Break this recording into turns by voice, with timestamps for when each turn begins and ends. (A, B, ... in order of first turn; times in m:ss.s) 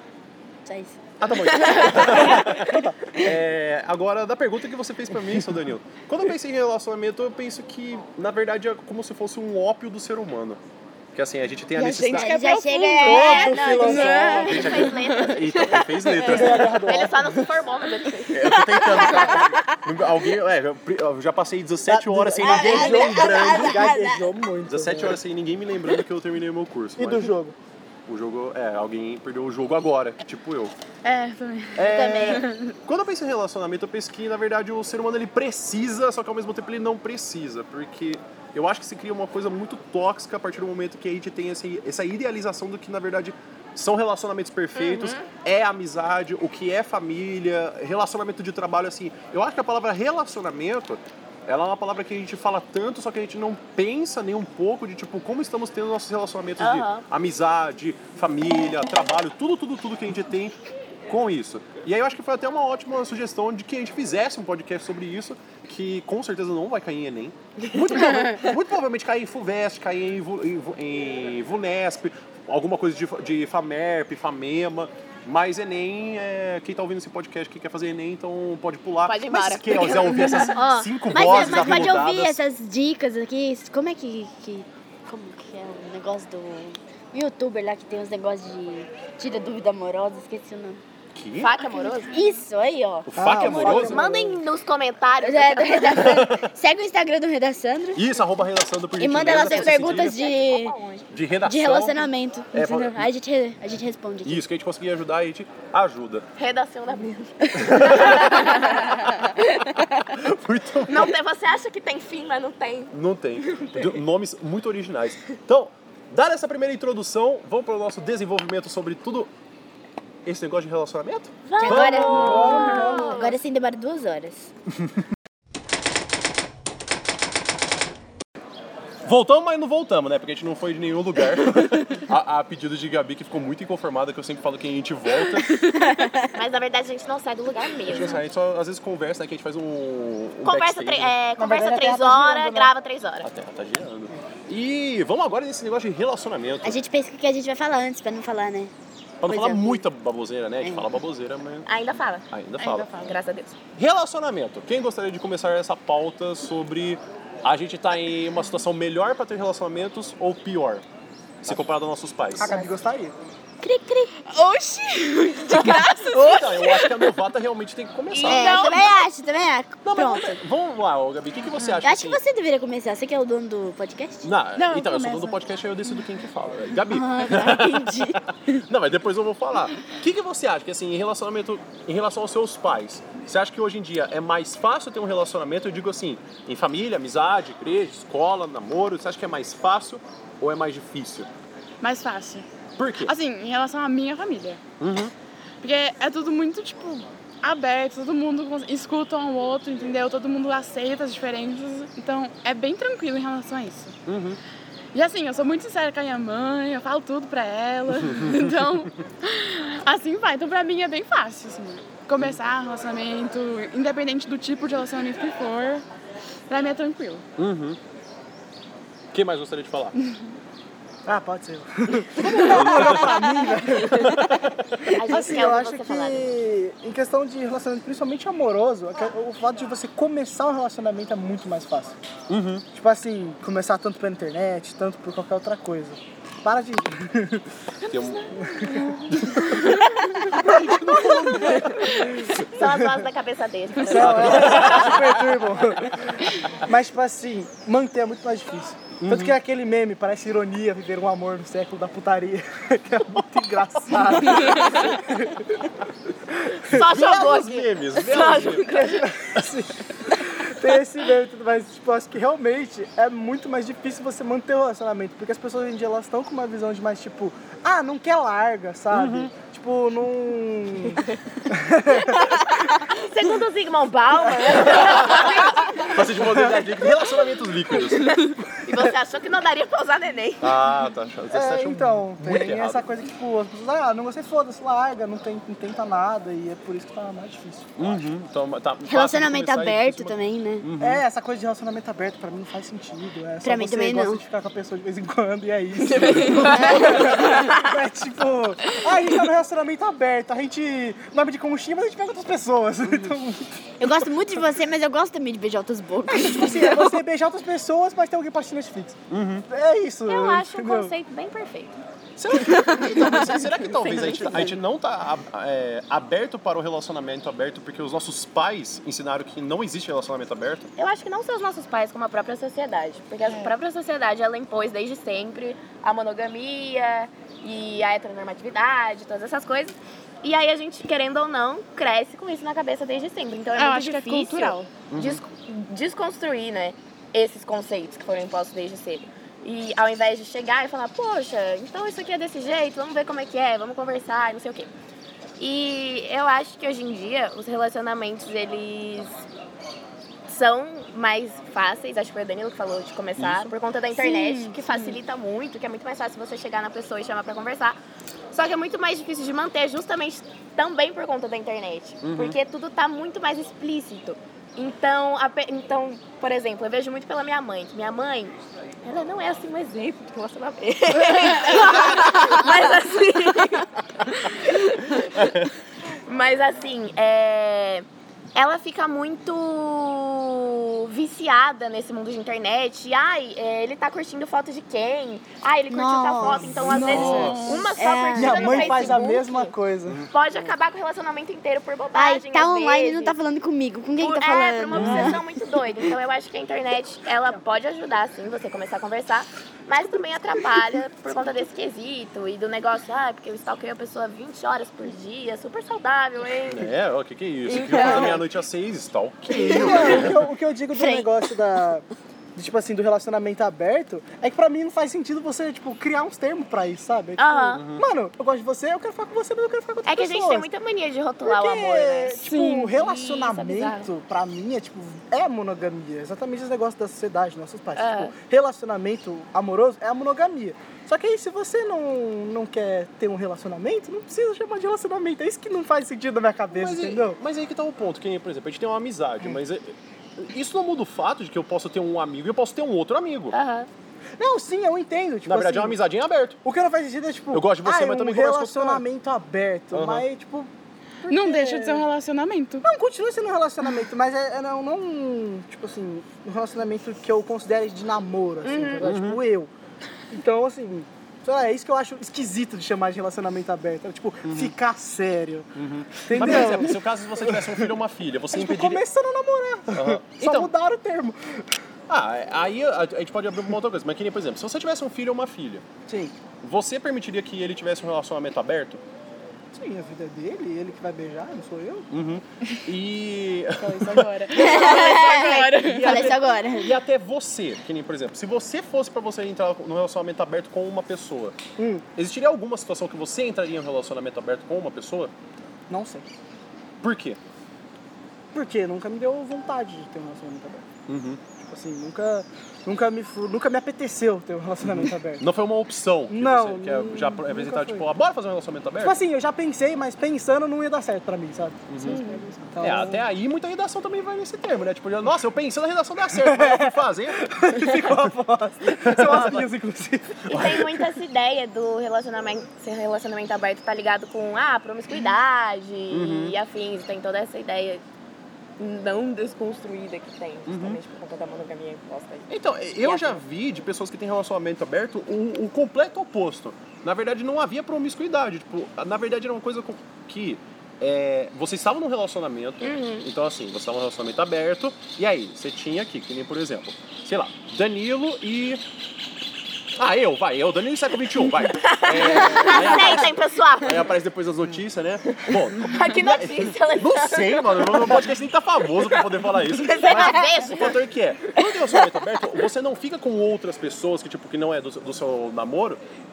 0:00.6-0:01.9 A
0:01.2-0:10.6 B
0:02.3-0:03.3 C
0:11.1-0:12.4 B
0:11.8-0:15.3 D
0:12.0-0:14.8 A
0:12.1-0:13.4 E
0:13.0-0:14.3 C
0:13.3-0:16.8 B
0:14.2-0:19.4 E
0:16.2-0:17.6 C
0:18.3-0:24.0 B
0:19.1-0:19.5 A
0:21.8-0:25.2 C
0:22.4-0:24.3 A
0:24.7-0:27.3 B
0:27.0-0:27.6 C
0:28.1-0:30.7 B
0:31.0-0:32.7 D
0:31.7-1:00.6 B
0:31.8-0:32.5 A
0:44.8-0:45.3 E
0:56.6-0:57.0 E
1:01.1-1:22.4 B
1:19.0-1:20.5 E
1:20.3-1:30.8 A
1:31.1-1:31.5 B
1:31.4-1:32.2 E
1:32.1-1:33.1 A
1:33.1-1:34.0 B
1:33.2-1:34.4 C
1:33.5-1:36.2 E
1:35.2-1:38.0 A
1:35.9-1:36.5 B
1:37.9-1:40.2 B
1:39.0-1:40.8 A
1:39.4-1:41.1 E
1:41.1-1:43.1 B
1:41.4-1:44.4 A
1:44.2-1:46.3 B
1:46.4-1:48.9 E
1:47.5-1:49.1 B
1:50.1-1:51.2 B
1:50.9-1:53.9 E
1:52.9-1:59.3 B
2:00.2-2:02.6 B
2:01.4-2:03.4 E
2:01.6-2:04.5 A
2:02.0-2:03.2 C
2:09.0-2:15.6 B
2:15.6-2:16.4 A
2:16.3-2:18.2 E
2:17.9-2:21.1 B
2:20.4-2:23.2 E
2:21.4-2:22.7 C
2:23.2-2:26.8 B
2:26.6-2:28.7 A
2:29.2-2:31.7 B
2:29.2-2:29.8 A
2:30.6-2:30.9 A
2:31.6-2:33.6 E
2:32.3-2:32.9 B
2:33.8-2:40.8 B
2:41.4-2:42.6 B
2:42.4-2:43.2 C
2:43.6-2:44.2 A
2:44.2-2:46.9 D
2:46.1-2:48.8 B
2:48.1-2:49.1 E
2:48.2-2:50.4 A
2:49.8-2:52.2 B
2:51.8-2:54.9 A
2:54.2-3:11.3 B
2:54.6-2:55.3 D
2:56.8-2:58.6 A
3:11.8-3:12.4 D
3:12.8-3:13.2 B
3:13.0-3:14.6 D
3:14.8-3:15.1 B
3:15.6-3:24.0 D
3:24.0-3:24.4 B
3:24.9-3:35.8 D
3:28.0-3:28.5 B
3:36.5-3:37.2 D
3:37.4-3:37.8 B
3:39.1-3:40.0 B
3:41.0-3:44.4 C
3:42.2-3:43.2 B
3:43.9-3:44.8 B
3:44.9-3:46.3 E
3:45.0-3:52.0 C
3:52.3-3:52.6 B
3:52.7-3:57.5 C
3:57.8-4:00.0 D
3:57.8-3:58.3 B
3:58.5-3:58.8 C
3:59.1-4:02.4 B
4:00.3-4:01.6 C
4:02.4-4:05.0 E
4:02.6-4:03.0 C
4:03.8-4:15.5 C
4:03.9-4:05.2 B
4:09.0-4:09.3 B
4:16.6-4:19.1 E
4:16.7-4:18.8 B
4:18.6-4:32.2 C
4:28.9-4:29.3 B
4:32.0-4:36.0 E
4:34.6-4:38.3 B
4:37.8-4:40.5 E
4:40.4-4:42.9 B
4:41.3-4:47.9 C
4:47.8-4:51.0 B
4:48.8-4:50.7 A
4:50.8-5:03.9 C
4:53.4-4:54.2 A
4:55.9-4:57.7 E
4:56.1-4:57.2 B
4:56.4-4:56.9 A
5:03.8-5:06.9 A
5:06.1-5:10.9 C
5:09.1-5:09.5 B
5:10.1-5:11.8 E
5:12.2-5:20.7 B
5:13.0-5:14.6 E
5:20.8-5:44.7 E
5:23.2-5:23.5 D
5:33.6-5:34.7 D
5:34.9-5:35.2 B
5:45.4-5:49.2 E
5:50.3-5:57.8 E
5:53.2-5:53.5 B
5:54.0-5:55.0 D
5:58.3-6:15.4 E
6:02.0-6:02.4 B
6:11.2-6:11.6 D
6:15.2-6:15.5 B
6:16.0-6:29.5 E
6:25.7-6:26.6 A
6:26.2-6:27.2 C
6:26.6-6:27.7 D
6:26.6-6:27.6 B
6:27.7-6:29.0 A
6:28.1-6:30.0 C
6:30.1-6:33.2 E
6:31.9-6:35.2 A
6:34.0-6:46.7 E
6:34.7-6:35.2 B
6:46.5-6:50.2 B
6:47.5-6:48.2 E
6:47.7-6:48.2 C
6:49.4-7:00.5 C
6:50.7-6:51.1 A
6:57.2-6:57.6 E
6:57.5-6:57.8 B
6:59.8-7:03.9 E
7:01.2-7:17.2 C
7:02.2-7:02.7 D
7:07.8-7:08.1 E
7:16.5-7:23.3 B
7:23.3-7:23.7 E
7:24.2-7:25.8 C
7:25.2-7:26.4 B
7:26.4-7:30.5 C
7:27.3-7:28.8 B
7:29.7-7:30.0 B
7:31.0-7:31.9 C
7:31.1-7:32.6 D
7:32.6-7:39.5 C
7:38.4-7:38.9 E
7:38.8-7:39.2 B
7:40.1-7:45.5 C
7:44.2-7:44.5 B
7:45.5-7:48.8 B
7:46.0-7:47.7 C
7:48.3-7:51.5 C
7:49.7-7:50.5 B
7:51.9-7:55.6 B
7:55.9-7:56.2 C
7:56.4-7:58.8 B
7:59.5-8:01.9 C
8:01.9-8:11.4 B
8:03.6-8:06.1 D
8:04.3-8:06.7 A
8:11.6-8:11.8 C
8:11.9-8:15.1 B
8:15.7-8:16.1 C
8:16.8-8:17.2 B
8:18.3-8:20.6 C
8:20.9-8:21.2 B
8:21.4-8:25.2 C
8:24.7-8:29.0 B
8:26.1-8:27.9 C
8:28.8-8:33.0 C
8:31.7-8:32.0 B
8:32.6-8:37.2 B
8:36.1-8:40.7 C
8:38.7-8:39.5 B
8:39.0-8:39.4 E
8:40.3-8:47.8 E
8:40.3-8:40.7 B
8:45.9-8:46.4 B
8:48.6-8:53.2 E
8:50.5-8:50.8 B
8:52.3-9:08.6 B
9:02.6-9:03.1 E
9:09.8-9:25.8 B
9:11.4-9:13.9 E
9:15.2-9:18.1 E
9:18.8-9:20.8 E
9:21.4-9:21.9 E